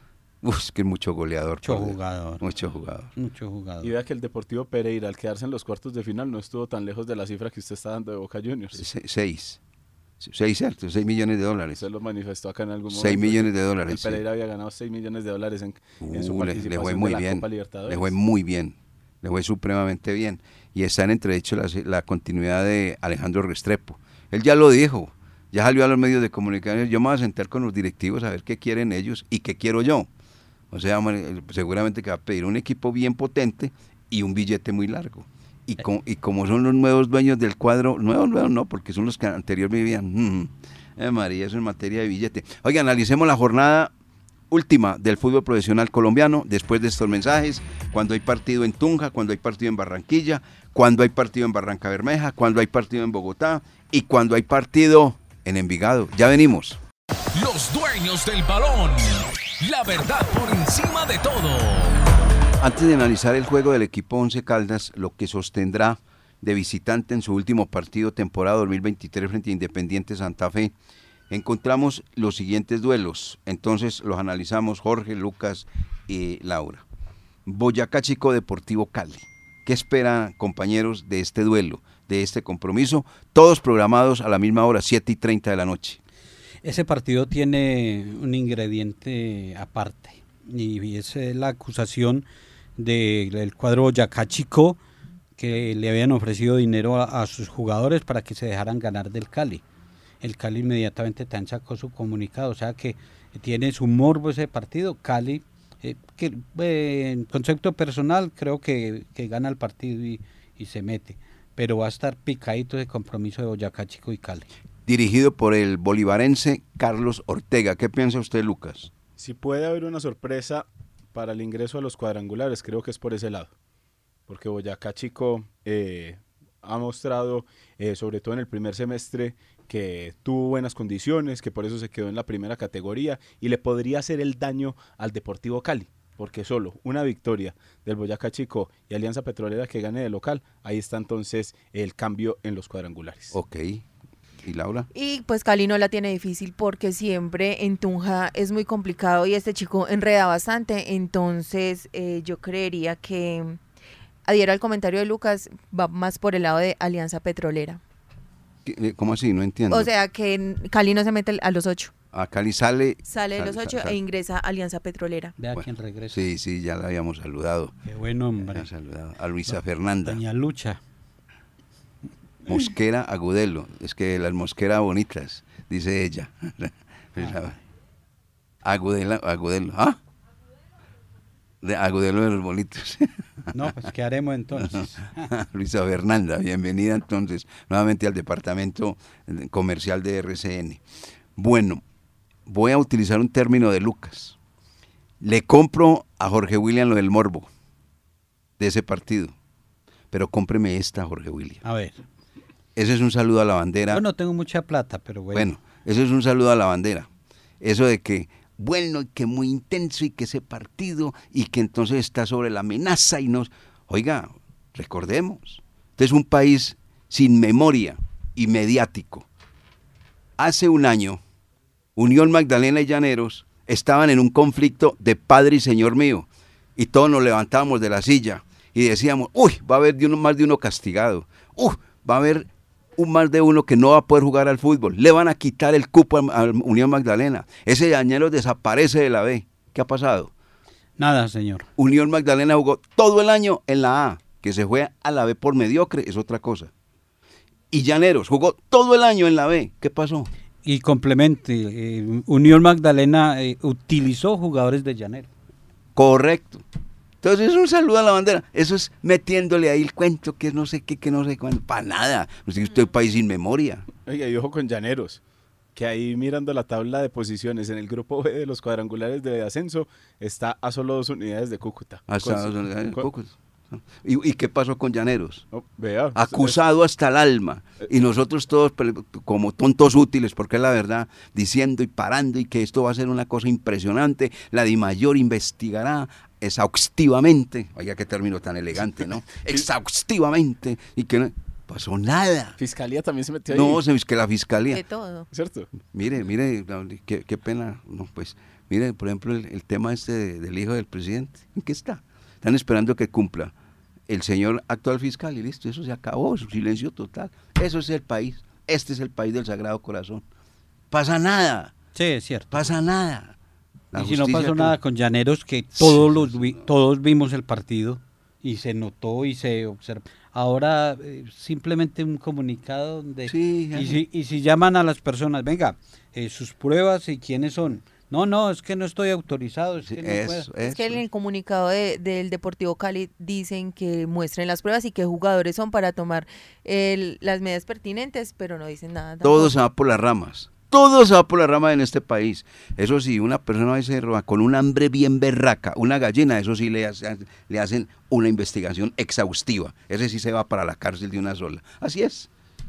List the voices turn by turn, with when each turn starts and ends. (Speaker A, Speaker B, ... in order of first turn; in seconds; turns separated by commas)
Speaker A: 0.4-3.1, Speaker B: 1.6-2.4, Speaker B: 3.1-3.9, Speaker C: 3.8-8.8, Speaker A: 8.8-9.6, Speaker A: 10.2-11.8, Speaker C: 11.8-18.1, Speaker A: 12.9-14.2, Speaker A: 16.0-30.1, Speaker A: 30.7-43.9, Speaker A: 44.5-56.8, Speaker D: 57.3-62.0, Speaker A: 62.6-70.7, Speaker A: 71.3-76.8, Speaker A: 77.4-86.0, Speaker B: 86.6-92.2, Speaker B: 92.8-94.8, Speaker B: 95.4-99.6, Speaker B: 100.2-114.5, Speaker A: 114.8-118.9, Speaker C: 119.2-123.5, Speaker C: 124.3-143.3, Speaker A: 143.3-143.8, Speaker A: 144.4-144.9, Speaker E: 144.9-153.6, Speaker E: 154.3-157.8, Speaker A: 158.6-159.9, Speaker E: 159.7-161.9, Speaker A: 162.1-164.0, Speaker E: 163.1-165.3, Speaker B: 165.4-166.2, Speaker A: 165.5-167.8, Speaker B: 167.8-168.7, Speaker A: 168.4-170.2, Speaker B: 170.0-170.8, Speaker A: 172.5-177.6, Speaker A: 178.6-180.0, Speaker A: 181.6-183.7, Speaker B: 183.5-185.3, Speaker A: 184.6-190.8, Speaker A: 191.3-191.8, Speaker A: 192.4-194.4, Speaker A: 195.2-197.5, Speaker A: 198.6-199.3, Speaker A: 200.1-201.6, Speaker B: 201.6-202.0, Speaker A: 202.8-204.0, Speaker B: 203.9-205.5, Speaker A: 205.3-207.1, Speaker A: 207.6-219.3, Speaker A: 220.4-221.2, Speaker A: 221.9-240.3, Speaker B: 241.0-241.7, Speaker A: 241.8-246.7, Speaker A: 247.7-250.3, Speaker B: 250.6-255.3, Speaker A: 255.9-256.6, Speaker A: 257.2-263.9, Speaker C: 264.0-265.2, Speaker C: 265.7-273.1, Speaker A: 272.1-275.4, Speaker C: 275.5-276.5, Speaker A: 276.1-292.6, Speaker C: 292.6-293.8, Speaker A: 293.5-294.8, Speaker E: 294.7-295.3, Speaker C: 295.3-295.7, Speaker A: 295.9-303.5, Speaker A: 304.1-310.2, Speaker A: 310.9-311.7, Speaker B: 311.9-312.6, Speaker A: 312.5-313.4, Speaker A: 313.9-314.8, Speaker B: 313.9-330.4, Speaker A: 315.7-316.7, Speaker A: 323.3-324.0, Speaker A: 329.8-331.0, Speaker E: 330.6-339.5, Speaker A: 339.2-352.3